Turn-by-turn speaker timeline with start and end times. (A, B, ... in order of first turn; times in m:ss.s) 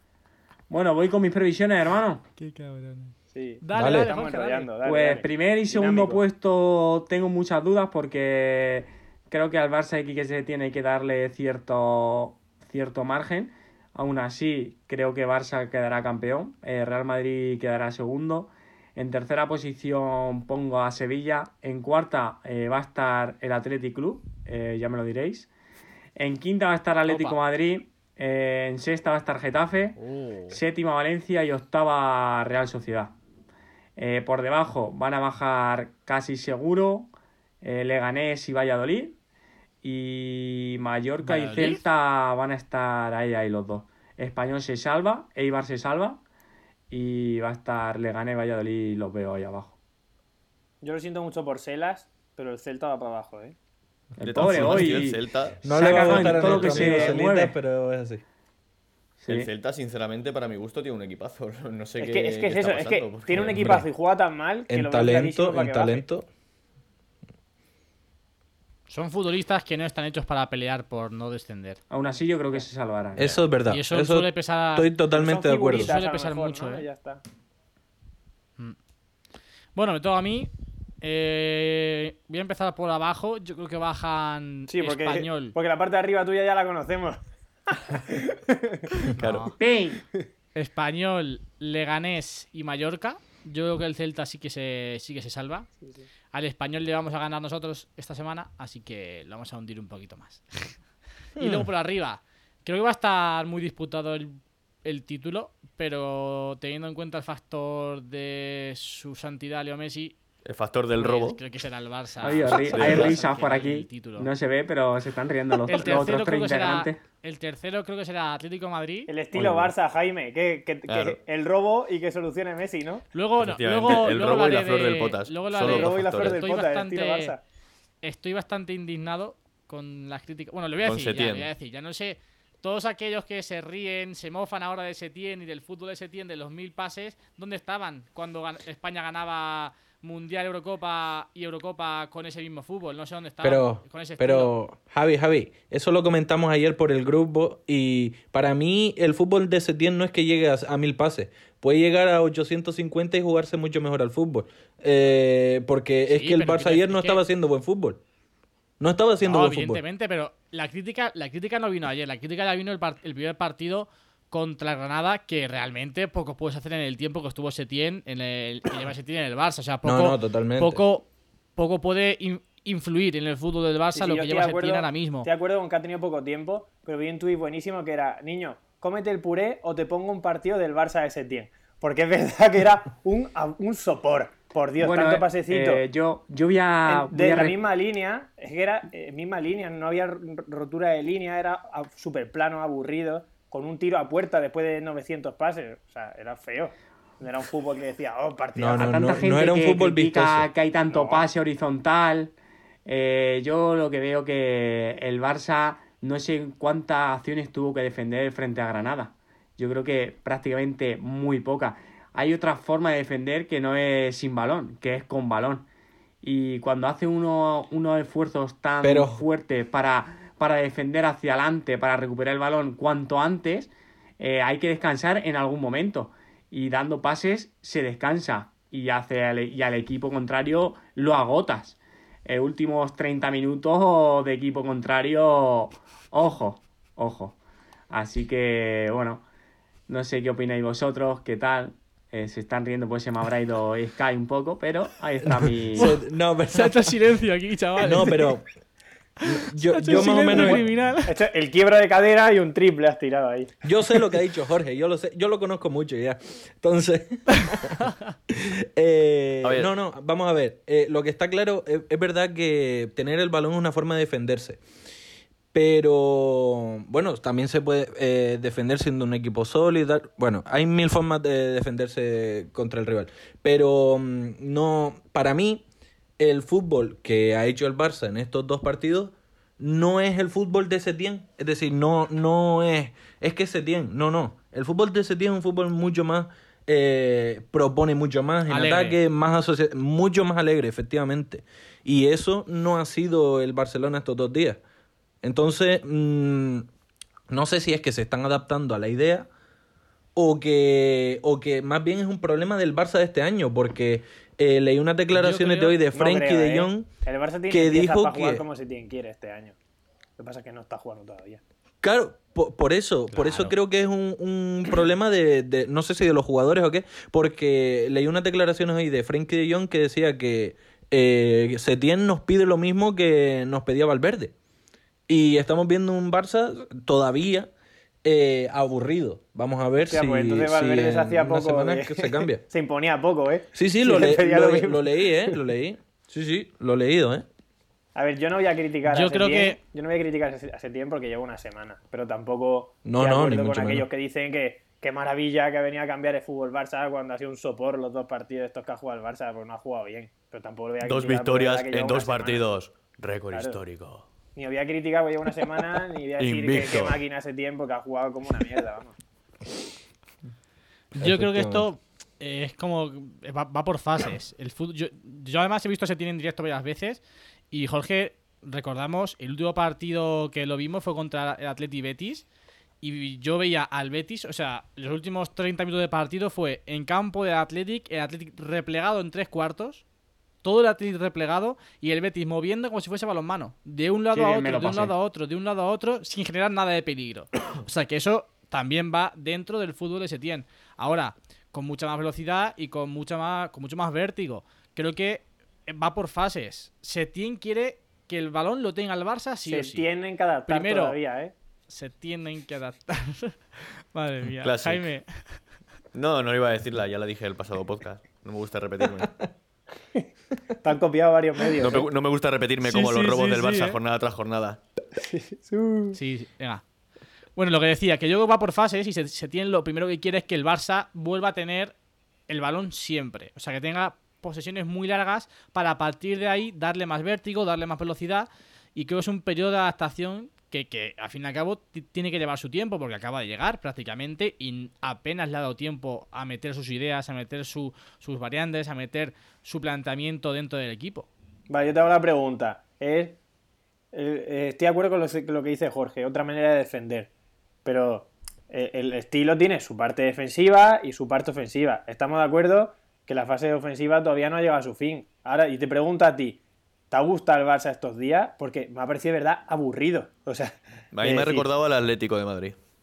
0:00.7-0:02.2 A
0:02.4-0:04.7 B
0:03.3-0:06.2 C
0:03.7-0:04.1 D
0:04.8-0:25.5 A
0:26.2-0:30.0 A
0:27.1-0:27.4 B
0:30.0-0:30.6 B
0:30.5-0:33.1 A
0:34.0-0:37.1 A
0:37.6-0:39.2 A
0:39.8-0:46.2 A
0:41.2-0:41.8 B
0:46.9-0:49.8 A
0:50.8-0:53.5 C
0:54.2-0:57.5 A
0:54.2-0:57.2 E
0:54.5-0:54.8 D
0:55.6-0:58.2 D
0:59.2-0:59.5 A
0:59.3-1:03.7 E
1:02.0-1:06.0 C
1:03.5-1:03.9 D
1:04.7-1:06.3 D
1:08.9-1:11.8 B
1:11.9-1:13.4 A
1:13.2-1:16.0 D
1:13.7-1:14.9 B
1:15.1-1:17.2 C
1:15.7-1:16.9 B
1:19.8-1:25.5 B
1:24.7-1:29.1 C
1:29.2-1:29.5 B
1:29.2-1:29.5 E
1:29.6-1:30.0 A
1:30.5-1:35.7 B
1:36.3-1:40.8 B
1:41.4-1:41.7 D
1:41.4-1:50.2 B
1:50.4-1:51.4 E
1:51.0-1:54.3 B
1:52.2-1:57.0 A
1:52.7-1:53.2 E
1:55.7-1:59.1 B
1:59.1-2:03.0 C
1:59.3-1:59.7 E
2:00.9-2:01.2 E
2:03.1-2:07.3 B
2:03.4-2:06.5 E
2:05.6-2:07.4 C
2:08.0-2:24.5 B
2:10.8-2:11.5 E
2:23.4-2:38.0 D
2:36.1-2:37.2 B
2:38.8-2:39.8 D
2:39.2-2:55.3 B
2:49.8-2:50.8 D
2:53.9-3:05.8 C
3:04.8-3:07.6 A
3:06.9-3:19.1 C
3:18.5-3:20.5 D
3:18.8-3:22.3 A
3:20.9-3:21.2 C
3:22.9-3:35.6 A
3:36.2-3:57.4 A
3:38.8-3:39.2 D
3:57.9-3:59.2 A
3:59.9-4:05.9 A
4:05.2-4:06.9 D
4:06.5-4:08.4 B
4:07.8-4:08.5 D
4:09.2-4:11.1 B
4:09.2-4:10.7 D
4:09.9-4:13.5 C
4:13.6-4:24.6 D
4:19.4-4:19.7 E
4:25.5-4:35.6 D
4:36.2-4:54.6 D
4:48.5-4:49.0 B
4:55.2-4:56.7 D
4:57.3-4:59.3 D
5:00.2-5:06.9 D
5:05.1-5:05.8 B
5:05.9-5:09.6 C
5:07.5-5:08.4 D
5:10.2-5:11.4 C
5:11.8-5:24.3 D
5:13.1-5:13.5 B
5:25.1-5:27.5 D
5:28.0-5:32.4 D
5:29.9-5:35.4 C
5:33.6-5:37.3 D
5:37.9-5:52.5 C
5:38.9-5:39.6 B
5:42.8-5:43.9 D
5:50.8-5:54.1 E
5:53.3-5:53.6 C
5:54.4-5:58.9 C
5:56.2-5:57.0 E
6:00.9-6:07.0 B
6:01.0-6:01.7 D
6:07.5-6:12.3 B
6:12.8-6:19.8 B
6:20.4-6:39.9 B
6:24.1-6:24.9 A
6:39.4-6:41.3 C
6:40.5-6:41.0 B
6:41.7-6:45.4 B
6:44.4-6:44.8 E
6:45.9-6:49.2 E
6:50.6-6:51.9 C
6:51.6-6:54.6 E
6:52.6-6:53.8 B
6:55.0-6:56.0 C
6:55.9-6:56.6 B
6:57.4-7:01.7 B
7:02.3-7:21.1 B
7:21.5-7:23.2 C
7:23.9-7:27.1 C
7:27.6-7:36.4 C
7:36.9-7:41.5 C
7:40.9-7:42.6 E